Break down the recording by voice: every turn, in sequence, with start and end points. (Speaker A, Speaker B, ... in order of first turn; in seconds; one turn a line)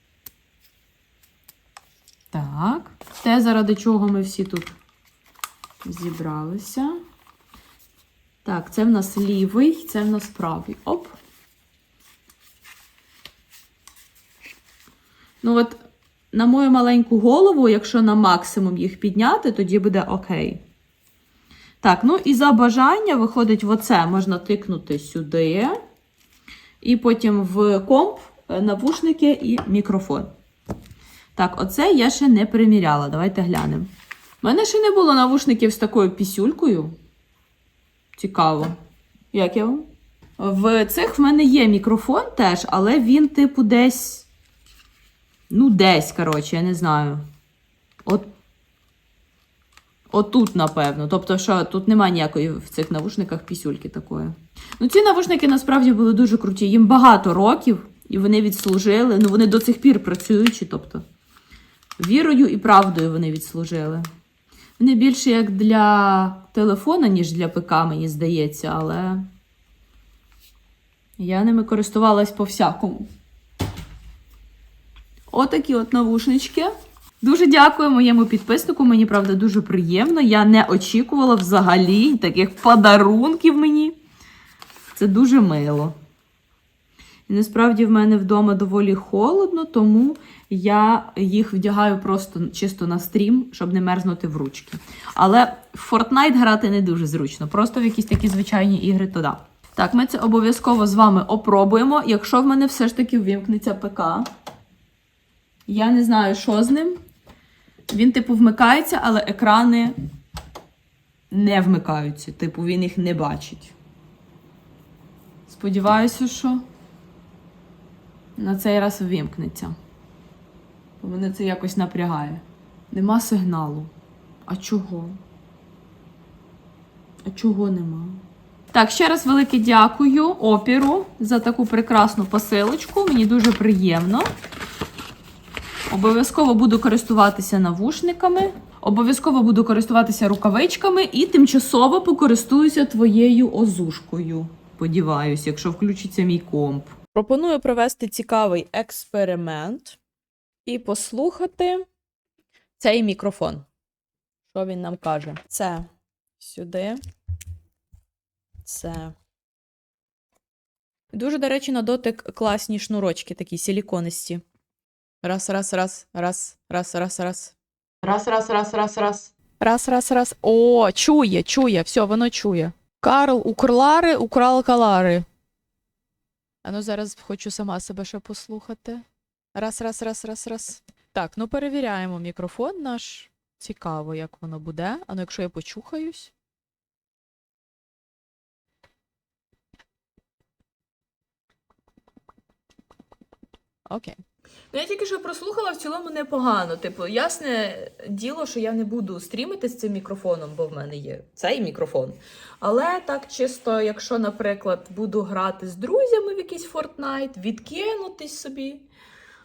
Speaker A: 2.3-4.8
Speaker A: 5.8-7.0
Speaker A: 8.4-11.2
Speaker A: 15.4-20.6
Speaker A: 21.8-25.8
Speaker A: 26.8-30.3
Speaker A: 31.3-33.9
Speaker A: 34.4-37.0
Speaker A: 38.1-38.8
Speaker A: 39.3-39.9
Speaker A: 40.4-44.3
Speaker A: 45.5-47.3
Speaker A: 50.1-61.0
Speaker A: 62.0-64.1
Speaker A: 64.8-69.3
Speaker A: 71.2-73.1
Speaker A: 75.3-84.0
Speaker A: 84.9-86.0
Speaker A: 87.3-104.3
Speaker A: 105.7-107.0
Speaker A: 107.9-109.9
Speaker A: 111.3-113.7
Speaker A: 115.5-116.6
Speaker A: 118.3-119.8
Speaker A: 121.0-123.9
Speaker A: 124.5-125.2
Speaker A: 127.2-134.3
Speaker A: 135.9-150.0
Speaker A: 150.7-151.8
Speaker A: 152.8-153.7
Speaker A: 154.5-157.0
Speaker A: 158.6-159.1
Speaker A: 161.1-164.4
Speaker A: 165.2-175.2
Speaker A: 176.6-186.3
Speaker A: 193.9-194.2
Speaker A: 194.7-208.8